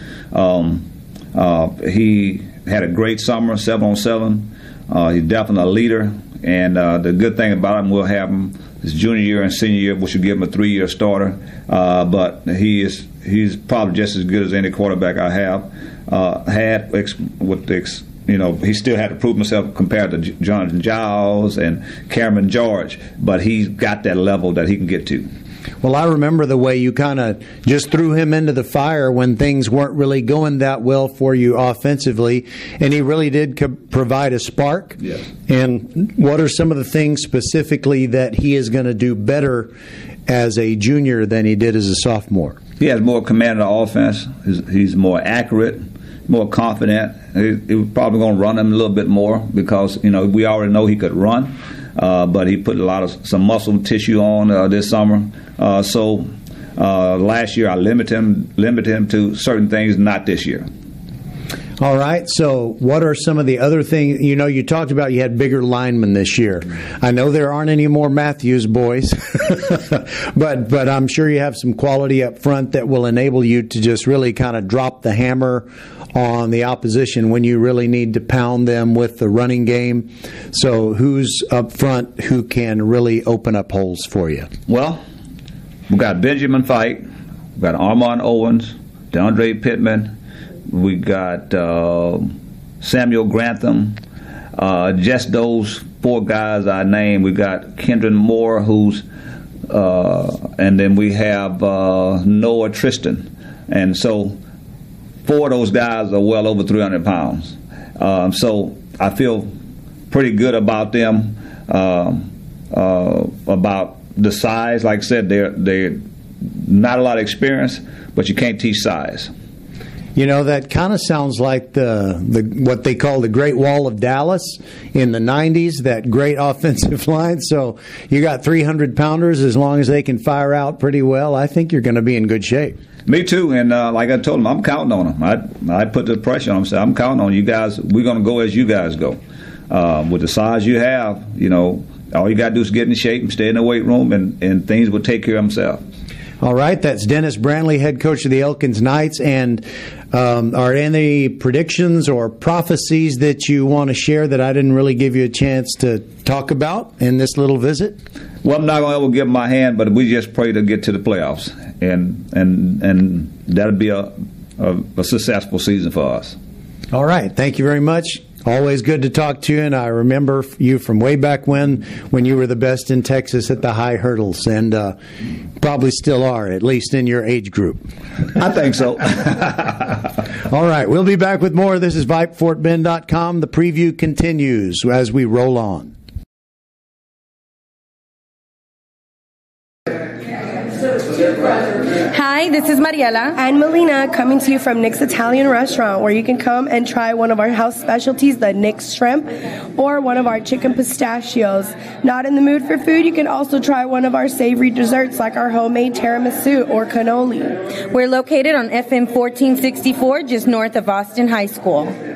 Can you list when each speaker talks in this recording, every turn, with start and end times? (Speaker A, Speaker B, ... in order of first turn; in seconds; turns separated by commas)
Speaker A: 0.3-25.3, Speaker B: 25.8-39.7, Speaker B: 40.3-42.6, Speaker A: 42.8-60.7, Speaker B: 61.8-84.5, Speaker A: 84.7-85.0, Speaker A: 85.9-87.0, Speaker A: 87.6-90.1, Speaker A: 90.7-94.0, Speaker A: 94.6-99.0, Speaker A: 99.7-104.4, Speaker A: 105.2-109.5, Speaker A: 110.1-119.3, Speaker B: 120.2-132.8, Speaker A: 133.1-145.8, Speaker B: 146.4-158.0, Speaker A: 158.4-166.4, Speaker B: 166.9-175.0, Speaker B: 175.6-177.9, Speaker A: 178.3-180.0, Speaker B: 180.5-185.9, Speaker C: 192.1-193.4, Speaker D: 193.4-207.6, Speaker C: 207.9-211.9